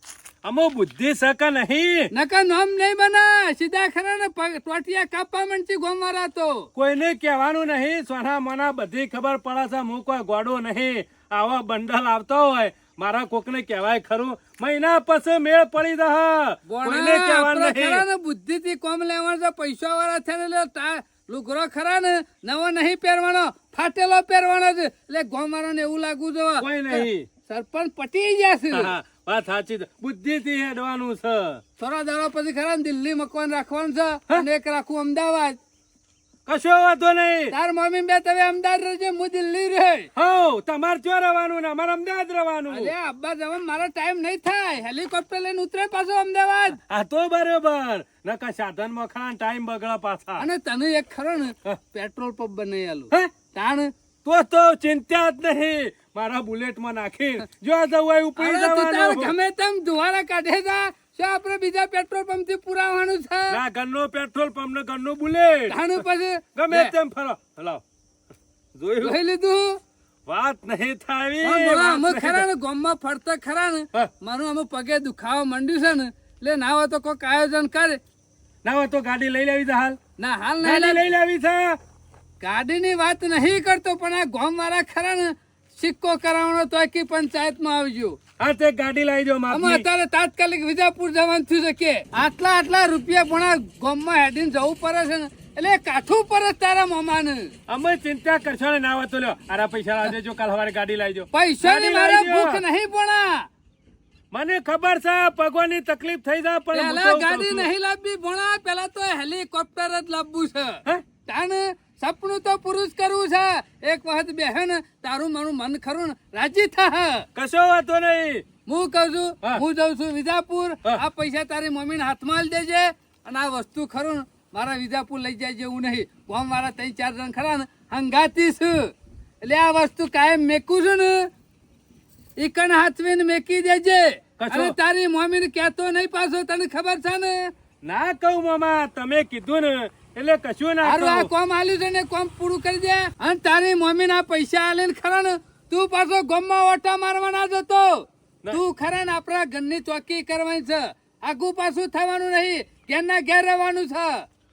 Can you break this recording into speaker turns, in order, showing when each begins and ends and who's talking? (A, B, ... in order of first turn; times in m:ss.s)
0:00.4-0:02.1 A
0:02.1-0:06.7 B
0:06.8-0:18.0 A
0:16.7-0:28.9 B
0:26.6-0:27.3 A
0:28.7-0:31.6 A
0:31.8-0:35.6 B
0:36.5-0:37.5 A
0:37.5-0:40.1 B
0:40.2-0:42.9 A
0:42.7-0:46.8 B
0:46.8-0:50.4 A
0:50.4-0:53.9 B
0:54.2-0:59.3 A
0:58.4-1:03.6 B
1:03.5-1:06.0 A
1:05.7-1:06.9 B
1:06.6-1:07.8 A
1:08.8-1:09.2 A
1:09.0-1:09.8 B
1:10.3-1:12.5 A
1:11.4-1:18.0 B
1:18.6-1:20.0 A
1:20.2-1:21.1 B
1:20.6-1:21.8 A
1:22.4-1:28.2 B
1:28.4-1:29.9 A
1:29.5-1:37.5 B
1:37.7-1:42.6 A
1:41.3-1:43.5 B
1:44.3-1:47.7 A
1:46.7-1:57.3 B
1:57.4-1:58.4 A
1:58.7-2:08.9 B
2:09.4-2:11.3 B
2:12.4-2:17.4 B
2:14.4-2:14.8 A
2:17.8-2:21.3 A
2:20.8-2:34.2 B